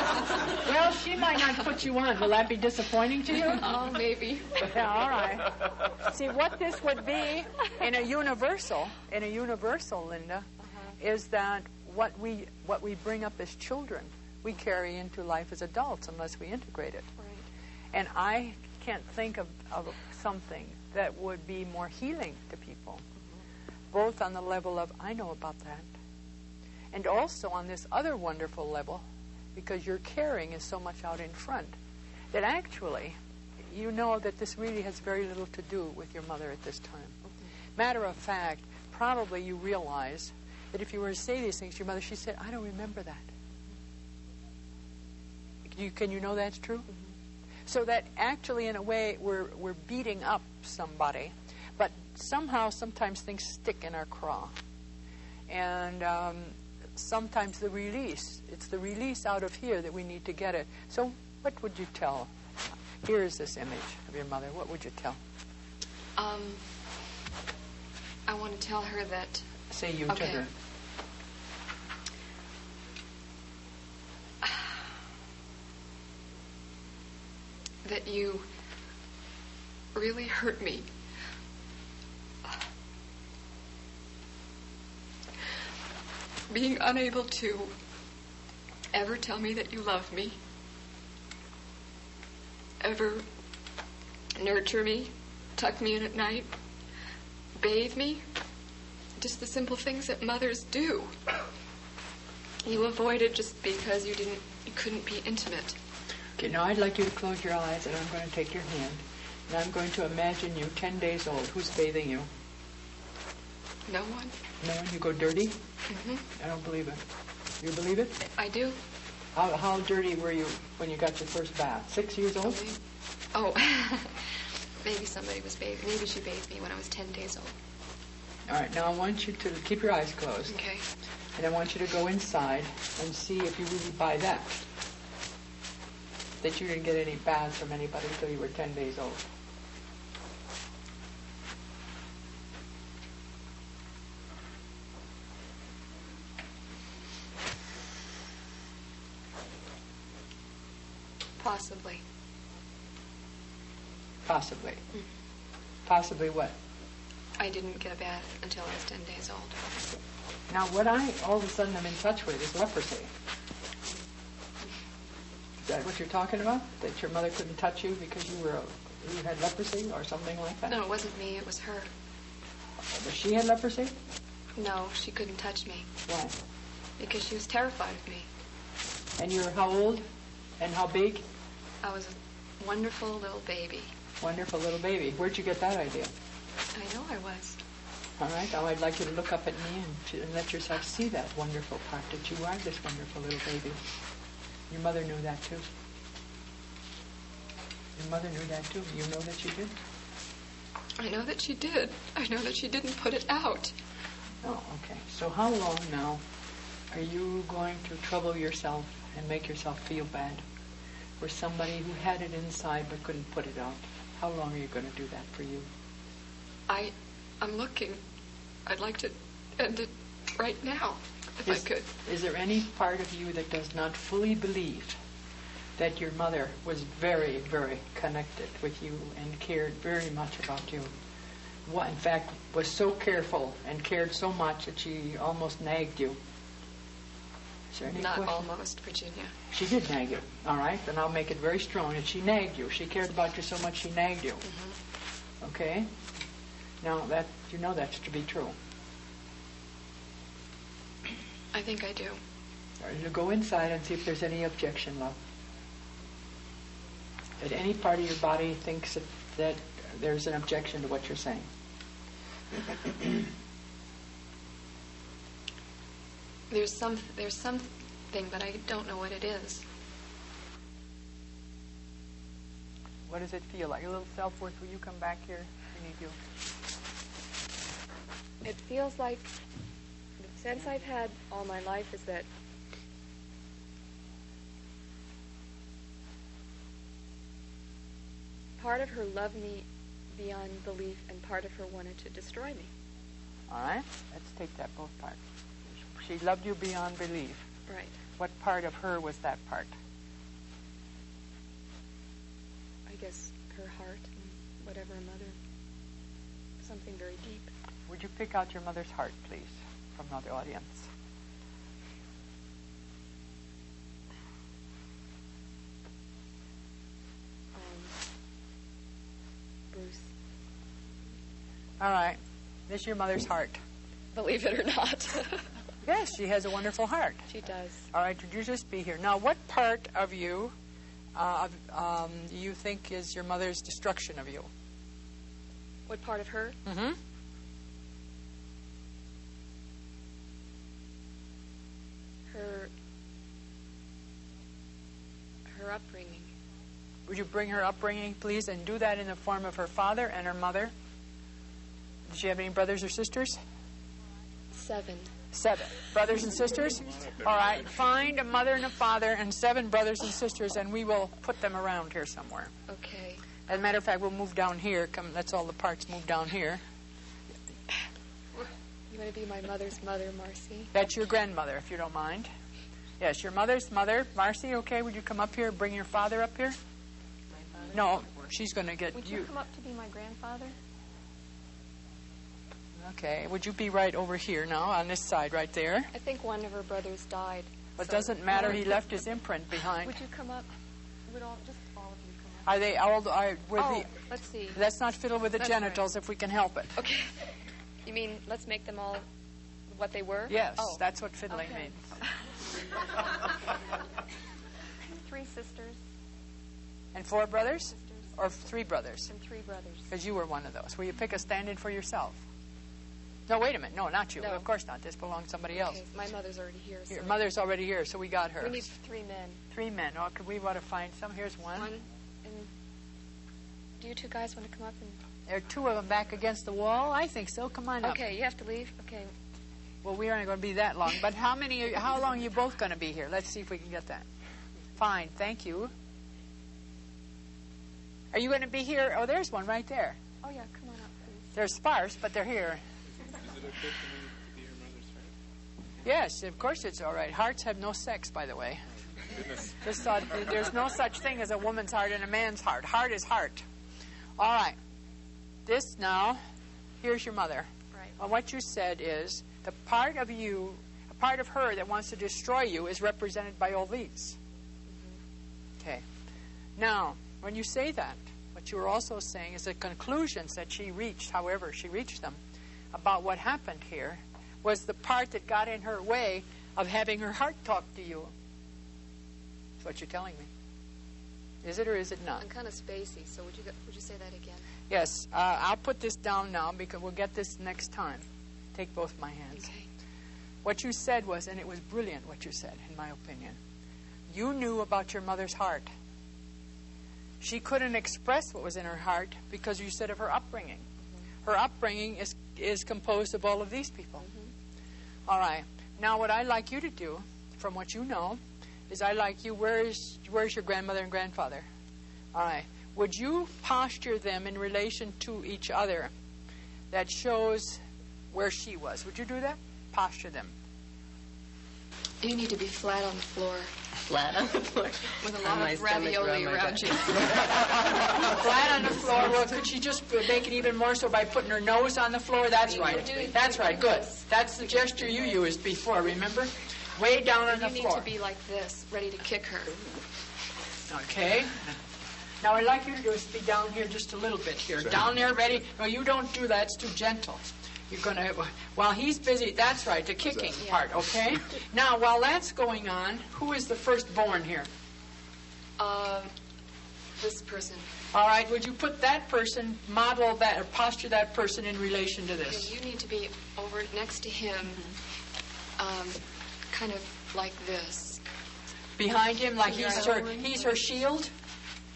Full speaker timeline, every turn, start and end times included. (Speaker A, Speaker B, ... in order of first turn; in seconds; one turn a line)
Speaker A: 0.5-3.8
Speaker B: 3.5-4.7
Speaker A: 4.6-10.5
Speaker A: 11.0-17.1
Speaker B: 17.2-17.4
Speaker A: 17.9-23.0
Speaker A: 23.9-25.9
Speaker A: 26.9-31.8
Speaker A: 32.3-37.2
Speaker A: 37.8-43.2
Speaker A: 45.6-46.9
Speaker A: 47.7-54.6
Speaker A: 55.5-62.3
Speaker A: 63.0-65.2
Speaker B: 66.2-66.6
Speaker B: 68.3-69.5
Speaker A: 69.7-70.5
Speaker B: 70.1-70.4
Speaker B: 74.4-74.7
Speaker B: 77.8-78.5
Speaker B: 79.9-80.9
Speaker B: 86.5-87.7
Speaker B: 88.9-90.4
Speaker B: 92.8-93.2
Speaker B: 94.3-96.5
Speaker B: 97.6-98.2
Speaker B: 99.2-101.1
Speaker B: 102.6-105.8
Speaker A: 106.4-112.3
Speaker B: 113.9-114.3
Speaker A: 114.6-115.6
Speaker B: 115.9-116.2
Speaker A: 116.3-117.0
Speaker A: 117.6-118.2
Speaker B: 118.2-118.8
Speaker A: 119.3-122.6
Speaker B: 122.4-122.8
Speaker B: 123.3-127.5
Speaker A: 128.5-130.6
Speaker B: 130.5-130.8
Speaker A: 131.3-134.6
Speaker A: 136.4-139.2
Speaker B: 151.4-152.0
Speaker A: 154.2-154.8
Speaker A: 155.8-156.5
Speaker B: 157.4-159.7
Speaker A: 160.5-163.1
Speaker A: 165.6-170.8
Speaker B: 170.7-171.9
Speaker A: 172.9-173.9
Speaker B: 174.6-175.9
Speaker A: 176.1-176.3
Speaker B: 177.0-178.3
Speaker A: 179.2-180.0
Speaker A: 180.6-181.2
Speaker B: 181.8-183.9
Speaker A: 184.2-186.1
Speaker B: 186.7-187.6
Speaker A: 188.2-193.8
Speaker A: 194.7-195.7
Speaker A: 197.9-199.7
Speaker B: 201.0-203.7
Speaker A: 204.4-206.2
Speaker A: 206.9-210.4
Speaker A: 211.2-215.7
Speaker B: 216.7-218.0
Speaker B: 218.7-221.8
Speaker A: 221.4-224.9
Speaker A: 225.8-230.9
Speaker A: 231.7-236.2
Speaker A: 237.7-238.5
Speaker B: 237.9-239.3
Speaker A: 239.5-244.4
Speaker B: 244.4-244.7
Speaker A: 245.4-245.9
Speaker A: 246.8-248.5
Speaker B: 251.5-252.2
Speaker A: 252.8-255.2
Speaker A: 257.4-261.5
Speaker B: 266.5-269.6
Speaker A: 273.1-276.2
Speaker B: 278.4-279.3
Speaker B: 280.2-282.3
Speaker B: 288.6-292.7
Speaker A: 293.5-295.2
Speaker A: 295.8-297.5
Speaker B: 297.7-297.9
Speaker A: 298.2-299.7
Speaker B: 302.9-305.4
Speaker B: 306.6-307.5
Speaker A: 307.9-310.9
Speaker B: 317.5-317.9
Speaker B: 319.7-320.1
Speaker A: 321.8-323.6
Speaker B: 324.1-325.5
Speaker A: 325.9-327.3
Speaker B: 327.3-327.9
Speaker A: 327.9-330.5
Speaker A: 331.1-334.5
Speaker B: 335.9-336.6
Speaker A: 336.6-337.0
Speaker B: 342.3-342.7
Speaker B: 345.5-346.3
Speaker A: 347.1-350.7
Speaker A: 352.1-353.4
Speaker B: 354.5-355.1
Speaker A: 355.3-362.5
Speaker B: 362.7-363.2
Speaker A: 363.5-366.6
Speaker B: 368.3-370.7
Speaker A: 370.7-372.3
Speaker A: 373.0-376.6
Speaker A: 377.7-379.3
Speaker B: 378.9-380.5
Speaker A: 382.8-385.9
Speaker B: 385.9-388.8
Speaker A: 387.8-389.9
Speaker B: 389.8-390.5
Speaker B: 391.1-392.5
Speaker A: 392.4-393.9
Speaker B: 393.6-394.6
Speaker A: 394.5-396.8
Speaker B: 395.4-395.8
Speaker B: 396.8-399.1
Speaker B: 399.7-402.2
Speaker A: 400.3-401.9
Speaker B: 404.8-405.8
Speaker A: 406.9-409.1
Speaker B: 407.7-408.1
Speaker B: 409.1-409.9
Speaker A: 409.9-412.2
Speaker A: 413.3-415.8
Speaker B: 414.2-414.4
Speaker B: 415.6-417.2
Speaker A: 416.9-418.6
Speaker B: 418.4-419.4
Speaker A: 419.5-421.7
Speaker B: 421.6-422.5
Speaker B: 423.8-425.0
Speaker A: 425.3-428.1
Speaker B: 427.8-429.1
Speaker A: 429.8-434.1
Speaker A: 434.8-435.7
Speaker A: 438.1-440.0
Speaker B: 440.2-441.3
Speaker A: 441.3-442.6
Speaker C: 443.1-445.1
Speaker A: 445.8-448.6
Speaker C: 449.1-449.5
Speaker A: 449.5-453.4
Speaker A: 454.2-454.6
Speaker A: 455.4-456.2
Speaker A: 456.8-464.2
Speaker A: 465.6-465.8
Speaker A: 466.6-472.2
Speaker A: 472.7-478.1
Speaker A: 479.6-480.3
Speaker A: 481.4-482.2
Speaker B: 482.2-484.5
Speaker A: 484.7-489.5
Speaker B: 489.4-489.7
Speaker A: 490.4-493.4
Speaker A: 494.1-495.7
Speaker A: 497.2-500.6
Speaker A: 501.2-504.1
Speaker B: 504.0-504.3
Speaker A: 505.1-511.5
Speaker A: 512.1-515.9
Speaker A: 516.7-517.6
Speaker A: 518.1-520.3
Speaker B: 522.0-523.5
Speaker D: 523.9-526.7
Speaker B: 525.0-527.3
Speaker A: 528.0-537.9
Speaker B: 532.5-534.1
Speaker B: 537.2-539.6
Speaker A: 540.7-541.6
Speaker A: 542.2-554.5
Speaker B: 550.4-550.6
Speaker B: 555.6-556.1
Speaker B: 557.0-557.7
Speaker A: 557.9-562.5
Speaker B: 562.2-564.7
Speaker B: 565.6-568.0
Speaker A: 568.8-571.1
Speaker B: 569.4-570.5